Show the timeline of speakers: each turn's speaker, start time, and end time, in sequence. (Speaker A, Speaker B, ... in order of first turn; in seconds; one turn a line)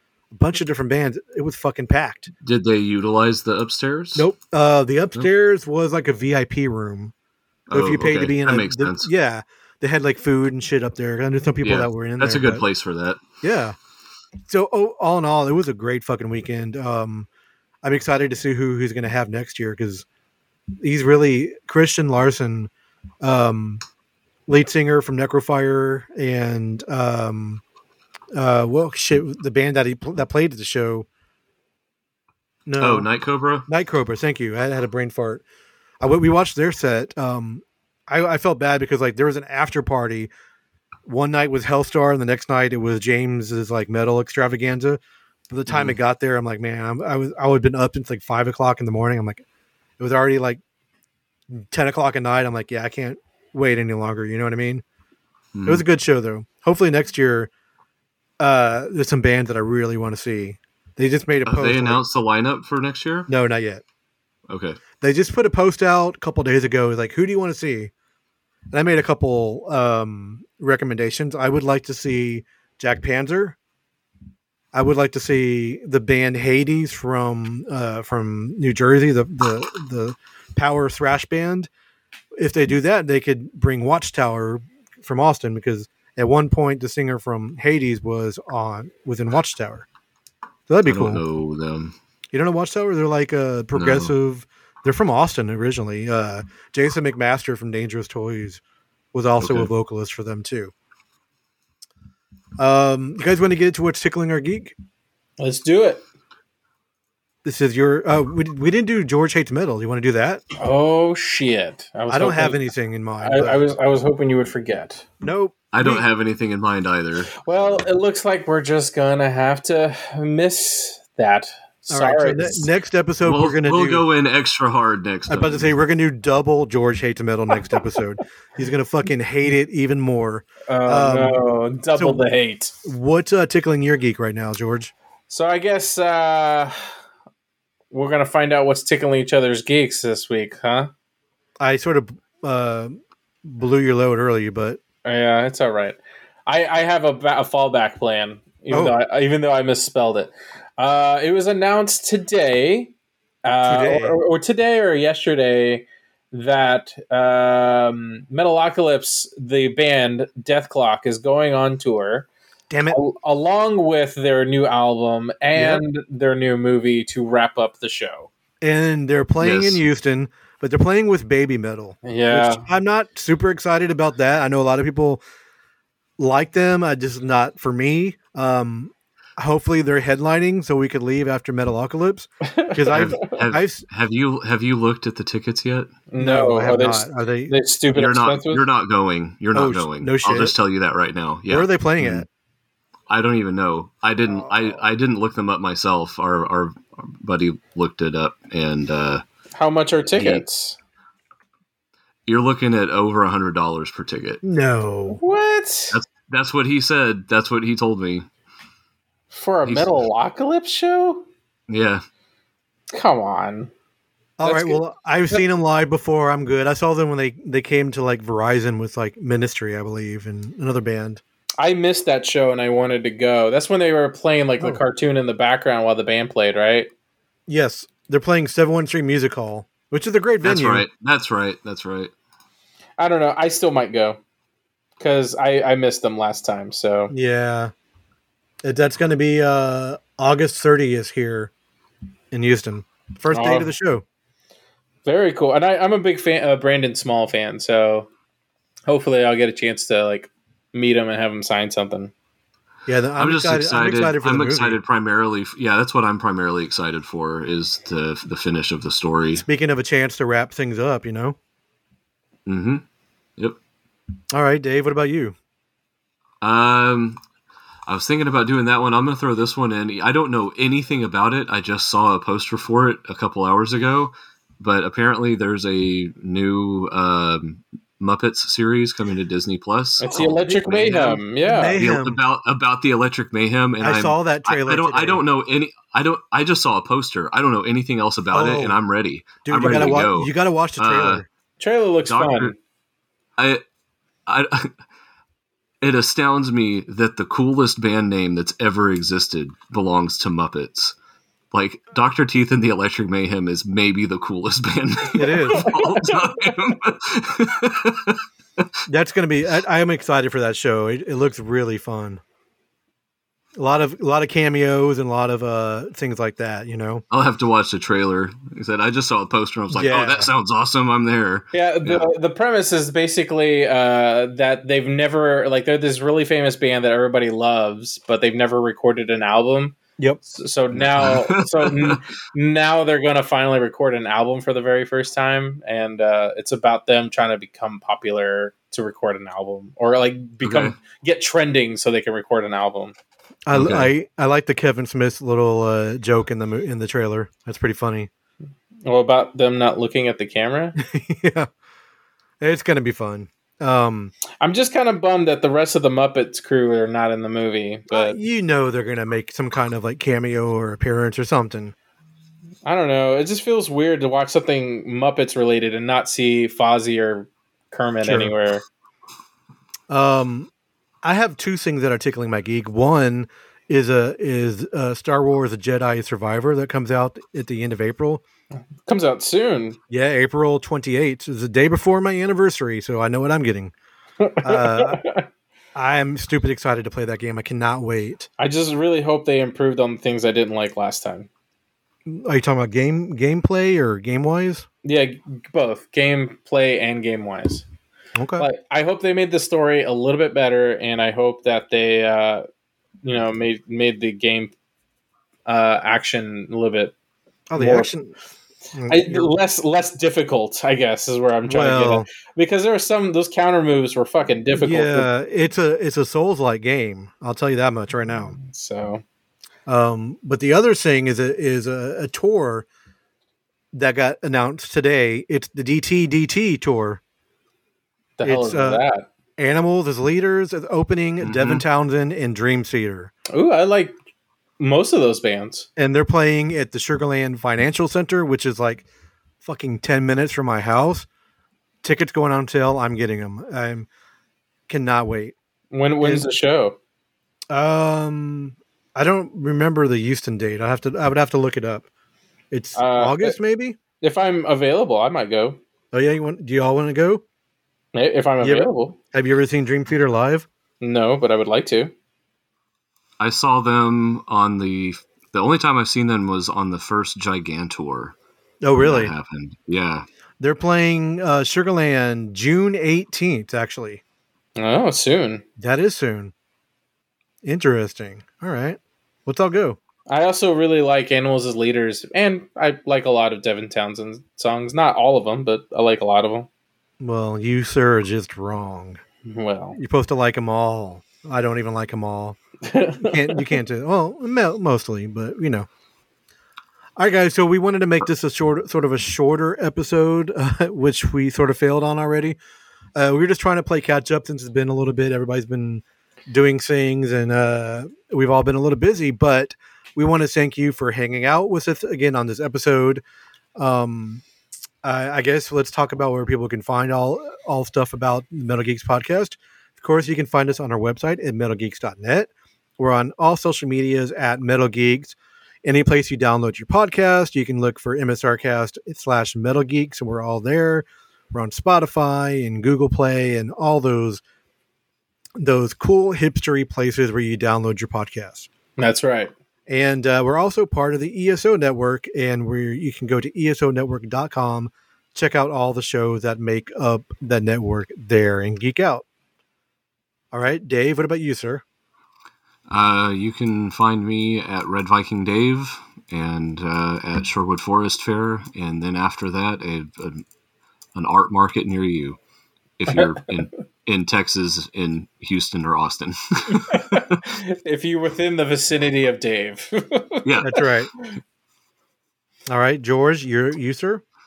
Speaker A: 0.3-2.3
Speaker B: 2.4-4.2
Speaker A: 4.1-7.1
Speaker B: 7.7-9.1
Speaker A: 7.7-12.6
Speaker B: 11.6-13.2
Speaker A: 13.4-13.8
Speaker A: 14.5-17.3
Speaker A: 17.8-20.0
Speaker A: 20.8-22.7
Speaker A: 23.2-23.8
Speaker A: 24.5-27.6
Speaker A: 28.3-31.1
Speaker A: 32.6-33.1
Speaker B: 32.8-33.7
Speaker A: 33.7-35.4
Speaker A: 36.0-40.3
Speaker A: 41.0-49.4
Speaker B: 45.7-46.0
Speaker A: 50.0-50.6
Speaker A: 51.5-54.8
Speaker B: 55.5-55.8
Speaker A: 55.6-57.5
Speaker A: 58.4-62.0
Speaker B: 61.5-63.3
Speaker A: 63.3-63.8
Speaker B: 64.5-64.8
Speaker A: 65.0-67.9
Speaker A: 68.7-73.5
Speaker A: 74.7-81.7
Speaker A: 82.3-89.8
Speaker A: 90.7-91.2
Speaker B: 90.8-91.9
Speaker A: 92.3-98.6
Speaker B: 93.7-94.1
Speaker A: 99.1-100.7
Speaker B: 99.4-99.7
Speaker A: 102.6-104.7
Speaker C: 105.4-106.0
Speaker A: 107.4-110.4
Speaker C: 110.6-112.6
Speaker A: 112.1-113.6
Speaker C: 113.2-115.0
Speaker A: 115.2-116.0
Speaker B: 115.7-117.8
Speaker C: 117.4-122.7
Speaker A: 121.9-124.0
Speaker B: 123.2-125.7
Speaker A: 125.3-131.3
Speaker C: 130.7-132.8
Speaker A: 131.9-132.2
Speaker A: 132.8-134.9
Speaker C: 135.3-136.8
Speaker C: 137.9-140.9
Speaker A: 141.6-144.8
Speaker C: 145.0-152.9
Speaker A: 148.7-148.9
Speaker C: 153.4-162.3
Speaker A: 153.6-154.2
Speaker A: 162.7-163.0
Speaker C: 162.9-168.3
Speaker A: 165.5-165.8
Speaker A: 168.6-175.2
Speaker B: 169.4-169.8
Speaker C: 172.0-172.7
Speaker A: 176.2-183.8
Speaker C: 182.4-183.3
Speaker B: 182.9-185.9
Speaker C: 186.1-188.6
Speaker A: 186.2-187.5
Speaker B: 187.9-192.2
Speaker A: 189.5-190.5
Speaker A: 191.5-192.2
Speaker B: 193.1-199.2
Speaker A: 194.3-194.8
Speaker C: 199.5-200.8
Speaker B: 200.1-200.4
Speaker B: 202.3-204.4
Speaker A: 204.4-205.2
Speaker C: 205.1-206.0
Speaker B: 205.9-208.3
Speaker C: 209.3-211.2
Speaker B: 209.6-210.0
Speaker B: 211.7-212.0
Speaker C: 212.9-213.7
Speaker A: 214.4-221.2
Speaker C: 214.4-215.4
Speaker C: 221.6-226.9
Speaker A: 227.5-230.8
Speaker B: 230.4-232.1
Speaker C: 233.0-234.2
Speaker C: 235.0-237.1
Speaker A: 237.1-237.7
Speaker A: 238.6-241.5
Speaker A: 242.3-244.0
Speaker C: 243.3-243.7
Speaker C: 245.0-248.1
Speaker C: 248.9-252.1
Speaker A: 252.9-254.8
Speaker B: 253.2-259.4
Speaker A: 259.3-261.4
Speaker B: 262.4-262.8
Speaker A: 264.3-265.3
Speaker B: 266.4-267.2
Speaker B: 267.9-280.4
Speaker C: 280.0-281.8
Speaker A: 280.0-282.2
Speaker B: 281.8-291.2
Speaker A: 283.8-285.2
Speaker A: 288.3-288.8
Speaker A: 289.4-291.2
Speaker C: 291.6-292.5
Speaker B: 292.1-292.5
Speaker B: 293.4-293.6
Speaker B: 294.3-294.7
Speaker B: 295.8-300.9
Speaker B: 301.5-308.2
Speaker A: 305.1-305.7
Speaker C: 305.7-306.5
Speaker A: 308.9-312.2
Speaker A: 313.5-317.0
Speaker B: 317.1-322.1
Speaker A: 319.7-320.3
Speaker C: 321.5-329.8
Speaker C: 330.3-342.9
Speaker B: 330.7-332.0
Speaker B: 340.4-340.7
Speaker A: 343.4-348.1
Speaker B: 343.5-343.9
Speaker C: 348.8-350.8
Speaker A: 350.8-351.5
Speaker A: 352.4-354.1
Speaker C: 354.4-358.2
Speaker A: 357.9-361.7
Speaker C: 362.6-368.6
Speaker A: 368.0-368.3
Speaker A: 369.9-370.5
Speaker A: 371.0-378.2
Speaker C: 378.8-379.8
Speaker A: 379.9-383.7
Speaker C: 384.2-385.2
Speaker A: 384.4-385.0
Speaker A: 385.7-388.3
Speaker C: 388.4-391.3
Speaker A: 392.1-394.7
Speaker C: 394.8-397.6
Speaker A: 398.1-398.5
Speaker C: 398.4-402.4
Speaker C: 403.0-404.5
Speaker C: 405.4-406.9
Speaker A: 407.5-408.1
Speaker C: 407.6-407.9
Speaker A: 408.7-409.3
Speaker C: 408.9-415.1
Speaker A: 411.4-412.1
Speaker A: 414.5-418.4
Speaker C: 418.4-419.0
Speaker A: 419.6-422.7
Speaker A: 423.7-427.0
Speaker C: 428.2-429.1
Speaker A: 428.2-428.8
Speaker A: 429.4-433.1
Speaker B: 431.2-431.6
Speaker C: 433.3-433.9
Speaker C: 434.6-435.7
Speaker A: 435.8-438.9
Speaker A: 439.4-441.1
Speaker A: 441.8-443.9
Speaker A: 444.7-445.3
Speaker C: 445.7-446.8
Speaker A: 446.0-446.3
Speaker A: 447.5-451.9
Speaker A: 452.5-453.8
Speaker C: 452.7-453.4
Speaker C: 454.0-455.6
Speaker A: 455.9-457.2
Speaker C: 457.9-459.0
Speaker A: 458.4-460.5
Speaker C: 460.8-461.9
Speaker B: 463.2-468.1
Speaker A: 468.6-469.1
Speaker B: 468.8-470.1
Speaker A: 470.4-474.0
Speaker C: 474.6-475.4
Speaker A: 475.6-476.3
Speaker A: 477.4-479.8
Speaker C: 480.1-486.5
Speaker A: 487.0-489.0
Speaker C: 489.2-489.8
Speaker A: 489.7-492.4
Speaker C: 492.6-493.5
Speaker A: 492.9-495.7
Speaker A: 497.0-502.4
Speaker A: 502.9-513.0
Speaker A: 513.5-514.2
Speaker A: 514.8-534.2
Speaker A: 535.4-538.5
Speaker C: 538.8-539.3
Speaker A: 539.7-549.0
Speaker A: 550.3-551.6
Speaker B: 552.7-560.2
Speaker B: 560.9-562.2
Speaker B: 562.8-567.0
Speaker C: 566.5-570.2
Speaker B: 570.2-570.5
Speaker A: 570.4-570.9
Speaker A: 572.5-574.0